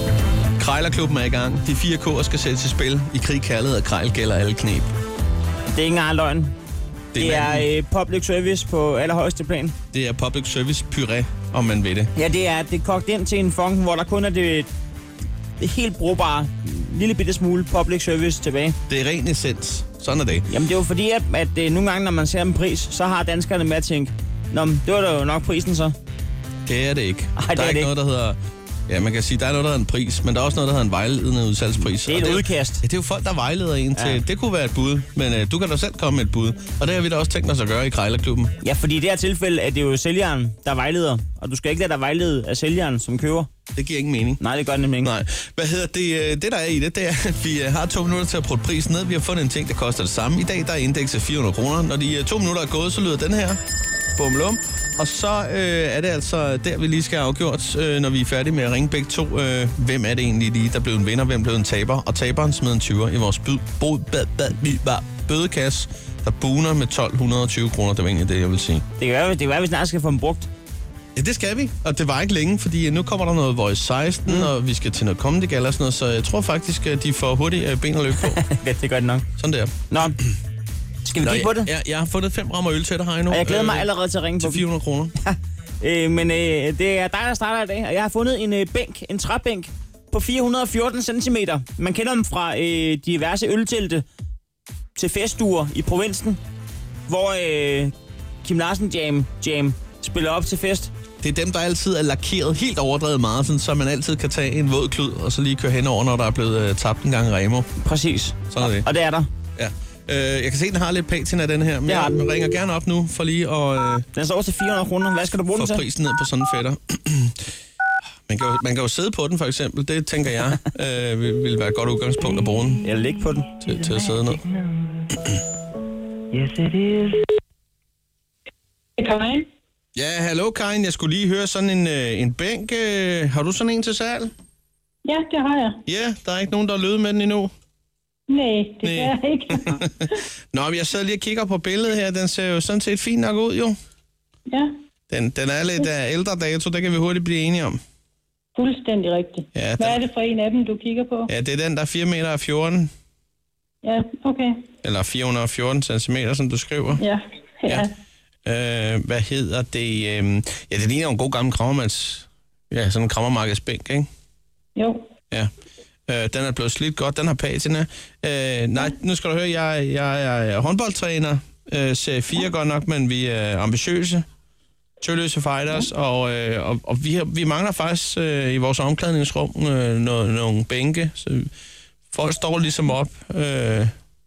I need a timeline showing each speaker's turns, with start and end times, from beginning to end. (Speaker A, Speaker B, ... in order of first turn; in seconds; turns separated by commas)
Speaker A: 0.6-4.9, Speaker B: 5.7-6.5, Speaker A: 7.1-7.7, Speaker B: 7.1-9.8, Speaker A: 9.9-12.1, Speaker B: 12.1-14.7, Speaker B: 15.6-18.8, Speaker A: 18.9-20.5, Speaker B: 20.5-25.9, Speaker A: 26.6-28.4, Speaker B: 27.4-27.9, Speaker A: 28.9-38.5, Speaker B: 32.0-32.8, Speaker B: 33.9-34.2, Speaker B: 38.6-43.5, Speaker A: 43.7-44.4, Speaker B: 44.4-45.1, Speaker A: 45.0-53.6, Speaker A: 54.2-68.8, Speaker B: 69.0-70.5, Speaker A: 71.1-78.4, Speaker B: 78.2-79.2, Speaker A: 79.4-79.8, Speaker B: 79.9-80.2, Speaker B: 81.0-81.7, Speaker A: 81.2-85.1, Speaker B: 83.3-84.6, Speaker B: 85.2-94.0, Speaker B: 95.0-96.4, Speaker B: 97.1-100.9, Speaker A: 101.2-107.7, Speaker B: 107.8-109.3, Speaker A: 108.5-108.9, Speaker A: 109.5-114.0, Speaker B: 111.9-112.2, Speaker B: 114.1-115.8, Speaker A: 115.5-117.4, Speaker A: 118.3-122.9, Speaker B: 122.8-123.5, Speaker A: 123.6-124.4, Speaker B: 124.5-124.8, Speaker B: 126.3-127.2, Speaker C: 129.0-129.4, Speaker A: 129.9-134.3, Speaker C: 135.1-135.8, Speaker A: 135.8-137.5, Speaker C: 138.3-140.0, Speaker A: 138.8-143.8, Speaker A: 145.1-147.8, Speaker C: 148.5-151.3, Speaker A: 149.5-150.0, Speaker A: 151.3-152.9, Speaker C: 153.8-154.6, Speaker A: 154.8-157.0, Speaker C: 157.0-157.9, Speaker A: 158.4-164.1, Speaker C: 164.8-165.0, Speaker A: 166.1-174.2, Speaker A: 175.0-181.5, Speaker A: 182.1-183.9